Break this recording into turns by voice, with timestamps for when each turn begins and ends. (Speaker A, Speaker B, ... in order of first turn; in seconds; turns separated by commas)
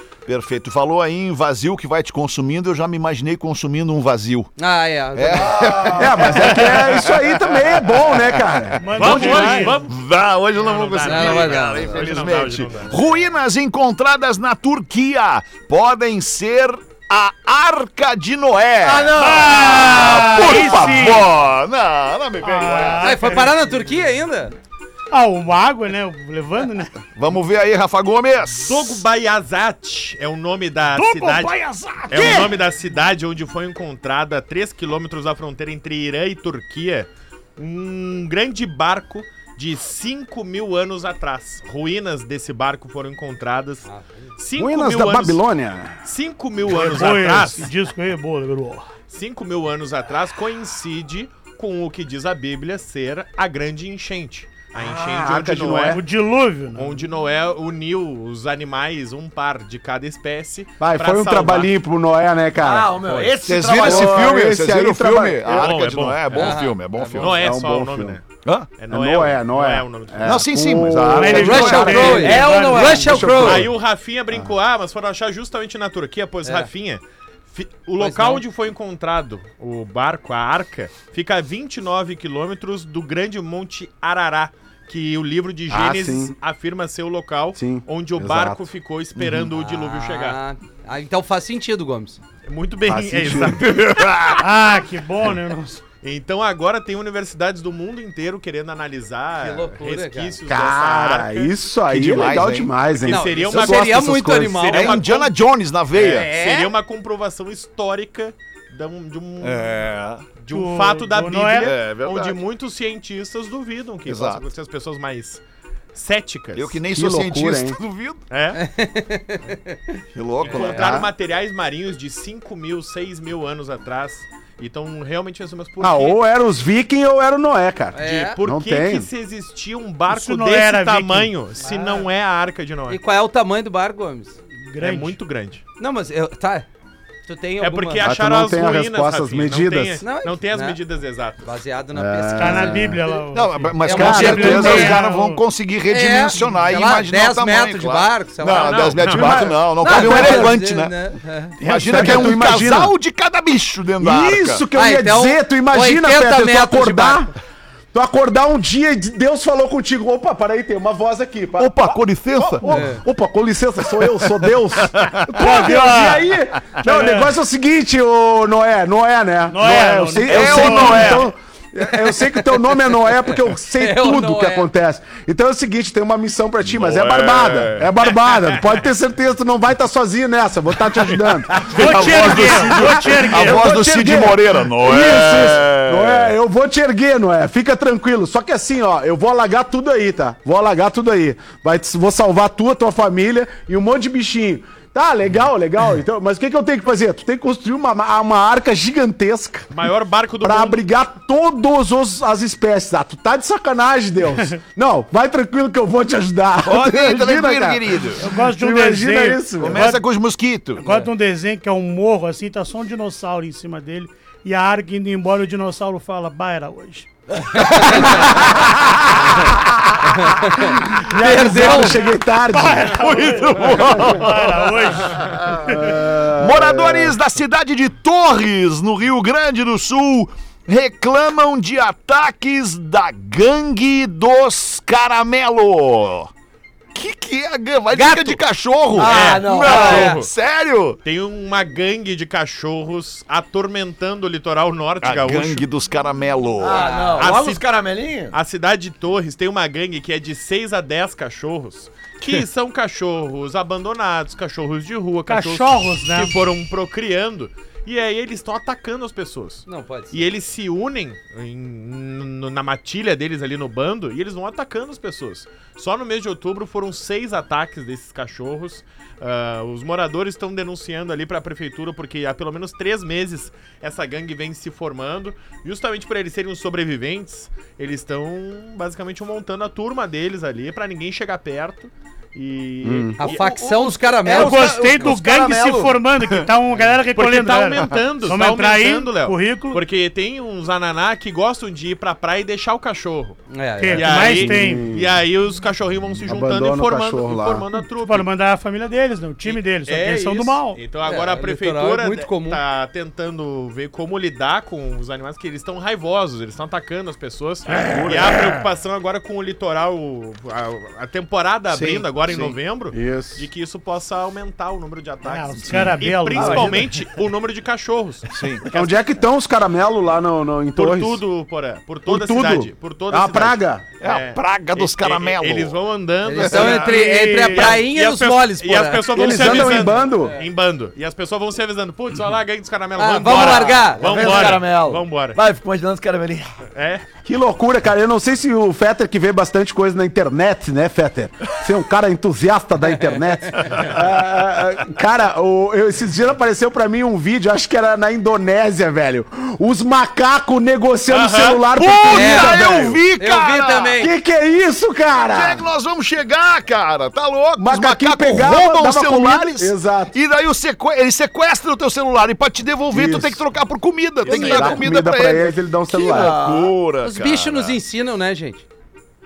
Speaker A: 0.3-4.5, Speaker B: 4.6-6.6, Speaker A: 5.2-23.3, Speaker C: 6.0-8.8, Speaker D: 8.8-9.9, Speaker E: 8.9-10.0, Speaker E: 10.6-13.0, Speaker B: 11.1-12.0, Speaker F: 18.8-19.6, Speaker D: 19.1-21.3, Speaker D: 22.4-23.6, Speaker B: 23.0-24.5, Speaker D: 25.1-27.0, Speaker A: 27.1-29.0, Speaker E: 28.5-45.4, Speaker D: 30.9-32.6, Speaker B: 43.9-44.3, Speaker C: 44.6-46.0, Speaker E: 46.0-47.7, Speaker D: 46.7-48.9, Speaker E: 49.1-56.0, Speaker C: 54.8-56.0, Speaker D: 55.8-57.0, Speaker E: 56.7-61.8, Speaker C: 60.8-63.0, Speaker F: 62.6-64.5, Speaker E: 63.0-63.4, Speaker A: 63.4-67.4, Speaker C: 63.8-65.7, Speaker E: 65.5-66.6, Speaker B: 66.3-67.3, Speaker E: 67.2-68.2, Speaker C: 67.2-68.2, Speaker A: 68.4-68.7, Speaker E: 68.8-70.4, Speaker C: 68.9-73.7, Speaker A: 70.2-72.3, Speaker D: 71.1-73.1, Speaker B: 71.3-73.7, Speaker F: 72.0-73.3, Speaker E: 73.3-90.4, Speaker B: 76.4-76.7, Speaker B: 78.0-78.4, Speaker C: 85.7-86.3, Speaker C: 87.5-88.7, Speaker A: 89.2-89.5, Speaker B: 89.6-92.2, Speaker E: 92.5-94.2, Speaker C: 92.9-93.6, Speaker A: 93.6-94.5, Speaker D: 94.4-95.8, Speaker E: 96.0-101.5, Speaker B: 99.4-100.4, Speaker C: 100.5-104.8, Speaker A: 101.9-102.8, Speaker E: 103.0-104.0, Speaker B: 103.1-105.0, Speaker E: 104.5-105.3, Speaker A: 104.7-106.3, Speaker E: 105.9-109.7, Speaker B: 106.0-106.7, Speaker A: 109.4-110.3, Speaker E: 110.3-115.4, Speaker D: 110.5-111.8, Speaker A: 111.6-112.4, Speaker A: 114.1-114.5, Speaker E: 115.9-116.8, Speaker A: 116.5-118.2, Speaker C: 116.9-117.8, Speaker E: 118.3-118.6, Speaker B: 118.5-120.0, Speaker A: 120.1-121.0, Speaker E: 120.4-126.2, Speaker C: 120.6-121.1, Speaker C: 125.8-129.1, Speaker B: 128.0-128.4, Speaker E: 128.0-133.0, Speaker D: 130.1-132.0, Speaker B: 132.9-134.4, Speaker D: 134.6-135.2, Speaker E: 134.8-135.6, Speaker B: 135.8-136.7, Speaker B: 137.3-138.1, Speaker E: 137.6-141.5, Speaker C: 138.0-140.0, Speaker B: 140.0-140.8, Speaker B: 141.4-143.2, Speaker C: 141.9-143.0, Speaker D: 142.4-145.4, Speaker A: 143.3-150.9, Speaker B: 143.8-145.0, Speaker C: 143.9-144.9, Speaker E: 144.8-145.4, Speaker B: 145.9-149.0, Speaker E: 148.5-149.5, Speaker C: 149.1-150.6, Speaker B: 149.8-151.6, Speaker A: 151.6-154.7, Speaker C: 151.6-152.9, Speaker C: 154.0-157.3, Speaker B: 154.8-157.3, Speaker C: 157.9-199.7, Speaker A: 161.6-162.9, Speaker B: 162.7-163.0, Speaker A: 164.9-165.6, Speaker D: 165.4-166.3, Speaker D: 166.8-167.4, Speaker D: 169.5-171.2, Speaker A: 170.2-171.3, Speaker E: 170.3-171.2, Speaker B: 171.9-174.7, Speaker E: 176.7-178.9, Speaker A: 181.5-186.3, Speaker D: 181.7-183.8, Speaker E: 199.7-200.8, Speaker C: 200.4-209.8, Speaker A: 206.7-208.3, Speaker D: 208.2-210.1, Speaker A: 209.6-210.8, Speaker D: 210.8-217.1, Speaker B: 210.8-211.1, Speaker B: 217.6-218.5, Speaker C: 218.2-218.7, Speaker C: 219.2-219.5, Speaker B: 220.0-222.1, Speaker C: 220.9-223.1, Speaker D: 221.4-225.8, Speaker A: 222.9-236.3, Speaker C: 225.7-227.2, Speaker A: 236.9-241.0, Speaker B: 237.9-238.4, Speaker F: 238.9-240.2, Speaker B: 238.9-240.2, Speaker E: 239.0-240.3, Speaker E: 241.0-245.7, Speaker A: 245.0-247.0, Speaker F: 246.6-248.4, Speaker B: 246.7-247.3, Speaker E: 247.2-247.7, Speaker E: 248.3-283.5, Speaker D: 255.3-256.4, Speaker B: 259.7-260.2, Speaker C: 282.8-283.2, Speaker B: 283.2-284.7, Speaker F: 283.2-286.0, Speaker D: 284.3-289.8, Speaker E: 286.8-293.4, Speaker B: 293.5-294.4, Speaker D: 293.8-294.9, Speaker E: 293.9-298.3, Speaker C: 294.4-295.2, Speaker C: 296.3-297.7, Speaker D: 298.0-300.8, Speaker E: 299.4-319.0, Speaker B: 301.0-302.6, Speaker A: 307.9-308.4, Speaker A: 311.7-312.0, Speaker C: 312.9-313.5, Speaker D: 315.2-316.9, Speaker F: 316.4-316.8, Speaker A: 318.3-318.7, Speaker C: 318.7-321.2, Speaker E: 320.8-335.4, Speaker C: 322.1-323.9, Speaker A: 324.0-325.8, Speaker B: 326.2-330.4, Speaker D: 326.8-327.8, Speaker C: 329.1-330.4, Speaker B: 333.0-334.6, Speaker F: 333.2-336.6, Speaker E: 336.8-337.1, Speaker C: 337.2-353.0, Speaker E: 351.1-351.6, Speaker A: 351.7-354.0, Speaker B: 352.1-354.1, Speaker C: 354.0-355.6, Speaker A: 355.3-365.6, Speaker C: 357.6-360.2, Speaker C: 362.9-363.4, Speaker E: 364.2-364.8, Speaker C: 364.2-366.4, Speaker F: 365.9-366.8, Speaker A: 366.1-367.8, Speaker B: 367.0-368.7